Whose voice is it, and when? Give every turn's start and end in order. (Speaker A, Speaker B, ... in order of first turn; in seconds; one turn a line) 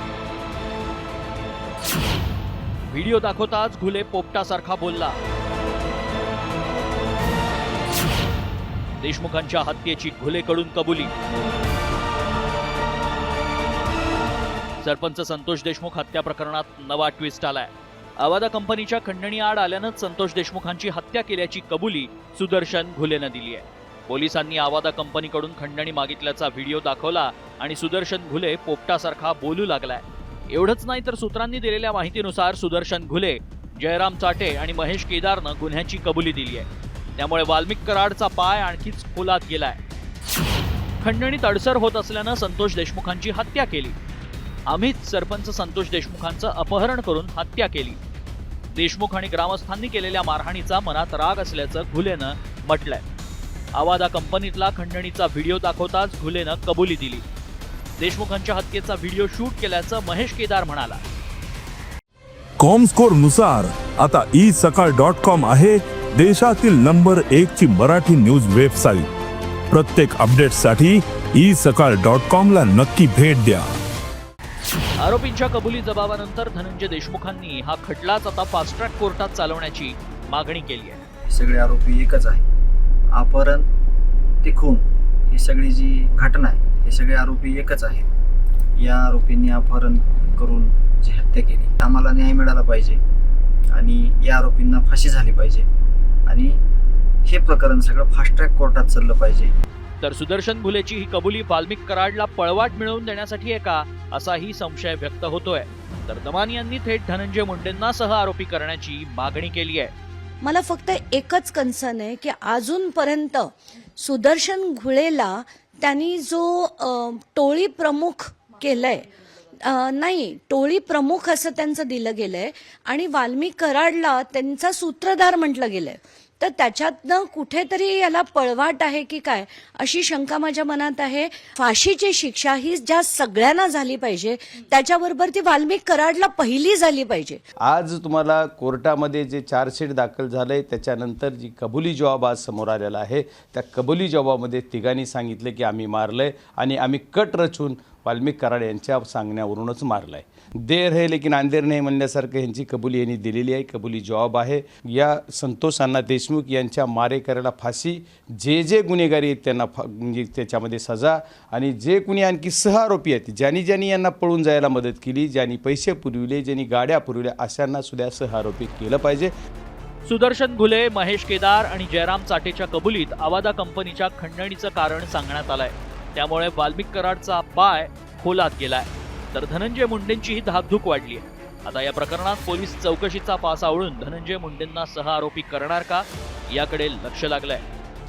Speaker A: 2.9-5.2
Speaker A: 9.0-11.1
Speaker A: 14.8-39.8
Speaker A: 41.0-43.9
Speaker A: 44.7-48.0
Speaker A: 48.7-53.0
Speaker A: 53.7-57.2
Speaker A: 58.0-61.0
Speaker B: 62.6-69.1
Speaker B: 69.7-73.7
Speaker A: 75.0-81.0
Speaker C: 81.3-82.4
Speaker C: 83.1-83.7
Speaker C: 84.4-88.1
Speaker C: 88.8-93.0
Speaker C: 93.7-95.7
Speaker C: 96.2-96.6
Speaker C: 97.2-99.5
Speaker A: 100.0-109.9
Speaker D: 110.4-137.4
Speaker E: 137.6-169.3
Speaker A: 170.0-187.6